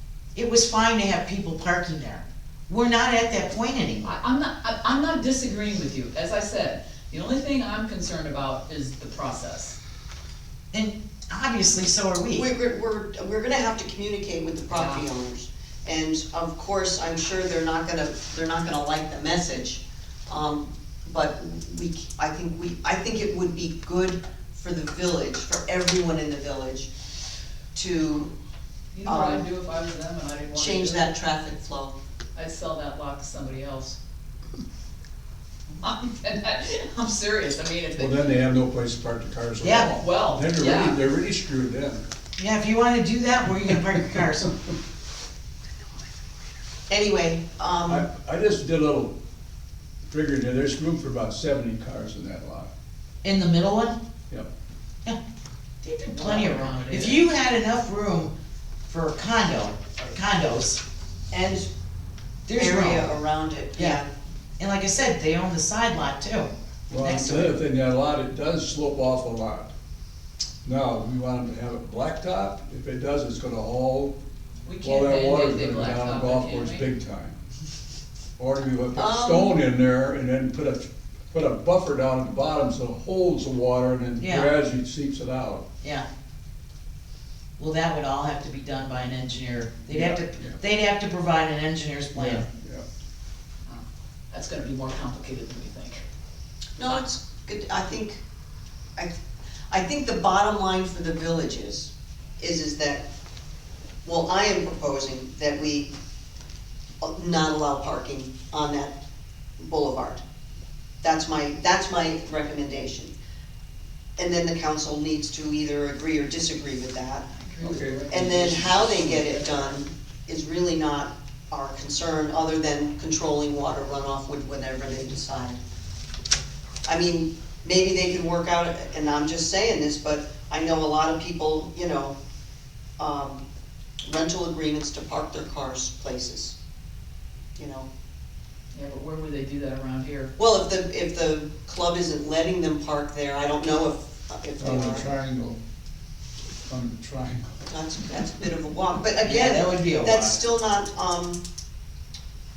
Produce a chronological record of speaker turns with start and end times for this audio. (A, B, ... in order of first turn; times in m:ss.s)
0:00.3-0:04.1 A
0:04.0-0:09.8 B
0:10.7-0:12.5 A
0:12.3-0:26.9 C
0:14.7-0:15.0 B
0:27.7-0:28.3 C
0:28.9-0:31.1 B
0:29.0-0:29.5 C
0:30.5-0:31.9 C
0:32.3-0:34.0 B
0:35.8-0:38.4 B
0:38.0-0:42.0 D
0:39.6-0:39.9 A
0:40.0-0:41.0 B
0:42.4-0:44.6 A
0:46.9-0:48.0 C
0:47.9-0:49.1 D
0:50.1-0:52.7 D
0:53.2-0:54.0 A
0:55.8-0:58.3 A
0:56.1-0:57.2 B
0:58.9-1:00.8 A
1:01.3-1:01.7 C
1:02.4-1:03.1 A
1:02.5-1:04.1 C
1:03.8-1:04.0 A
1:04.6-1:07.5 A
1:06.9-1:09.7 D
1:10.6-1:14.1 D
1:14.6-1:16.9 B
1:14.8-1:17.4 D
1:18.4-1:25.6 D
1:19.0-1:19.6 C
1:24.2-1:24.5 A
1:25.8-1:26.1 A
1:27.6-1:32.4 A
1:29.9-1:30.6 D
1:32.1-1:32.8 D
1:33.6-1:36.0 B
1:36.8-1:38.2 C
1:39.7-1:43.0 C
1:44.0-1:45.9 C
1:47.0-1:49.0 C
1:49.6-1:50.2 C
1:51.0-1:53.1 C
1:54.2-1:57.3 C
1:57.3-1:59.8 B
1:57.6-1:58.4 D
1:58.1-2:05.6 C
2:06.8-2:12.2 C
2:13.0-2:13.4 C
2:14.0-2:16.5 C
2:17.6-2:17.9 C
2:18.7-2:20.3 B
2:20.4-2:25.1 C
2:24.6-2:25.6 D
2:26.7-2:27.6 D
2:27.6-2:31.4 C
2:29.2-2:30.4 A